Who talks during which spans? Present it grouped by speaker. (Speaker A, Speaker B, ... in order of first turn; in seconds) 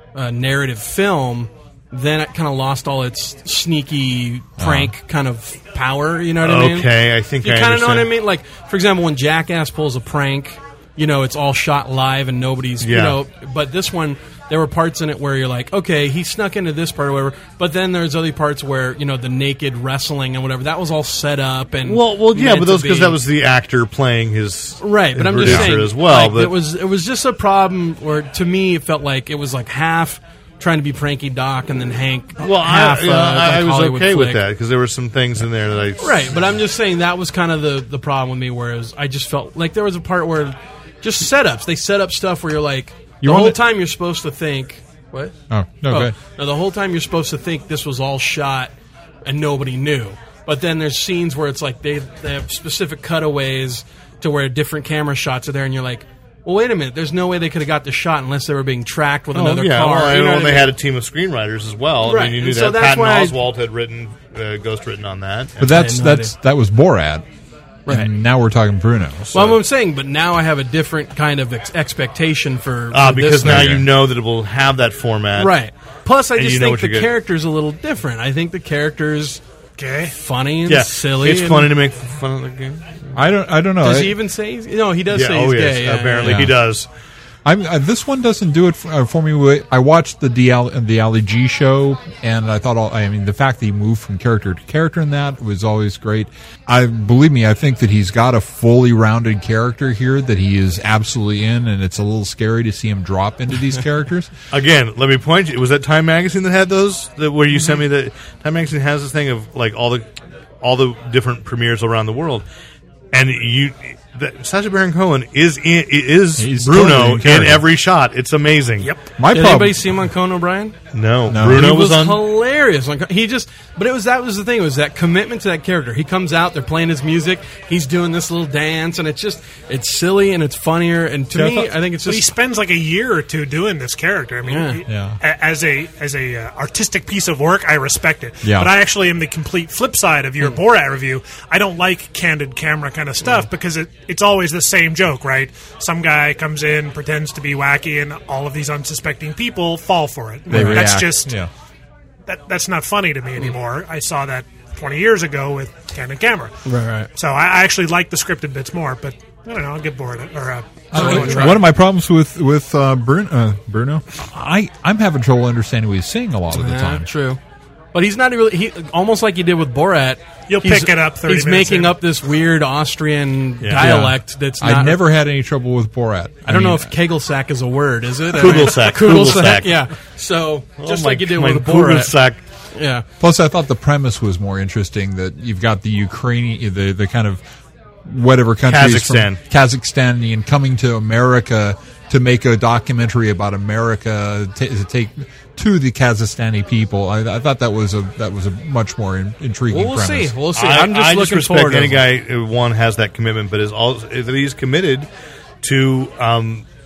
Speaker A: 0.1-6.9, 7.4-23.2, 24.8-34.4, 36.0-48.7, 49.2-60.7, 62.0-63.4, 65.6-66.3, 67.8-68.1, 69.3-73.8, 75.4-79.4, 80.1-81.7, 83.8-86.4, 119.3-120.7, 121.4-132.3, 134.4-134.8, 150.5-150.9, 156.7-157.1, 160.9-161.7, 166.5-167.4, 167.9-175.0, 176.4-182.2, 182.7-183.1, 199.7-202.0
Speaker B: 4.6-4.9, 25.4-25.7, 43.2-43.6, 45.5-46.1, 65.6-67.2, 67.9-69.6, 73.4-73.9, 83.1-84.2, 86.2-86.6, 87.4-104.3, 116.4-117.7, 119.2-119.8, 121.3-121.7, 131.3-131.7, 134.9-135.2, 138.4-138.7, 150.5-151.5, 160.9-167.1, 173.8-176.9, 183.2-187.4, 188.0-200.3
Speaker C: 6.4-8.1, 12.8-13.2, 21.8-26.6, 32.4-36.3, 59.3-65.6, 72.9-75.6, 76.3-77.1, 80.7-83.1, 85.1-86.9, 104.5-110.0, 110.6-112.4, 113.1-118.9, 120.9-122.2, 173.6-174.0, 178.3-179.8, 180.8-182.4, 188.7-189.4, 200.5-205.1, 205.6-206.7
Speaker D: 79.8-80.1, 132.0-151.3, 152.2-156.6, 157.1-161.7, 170.5-172.0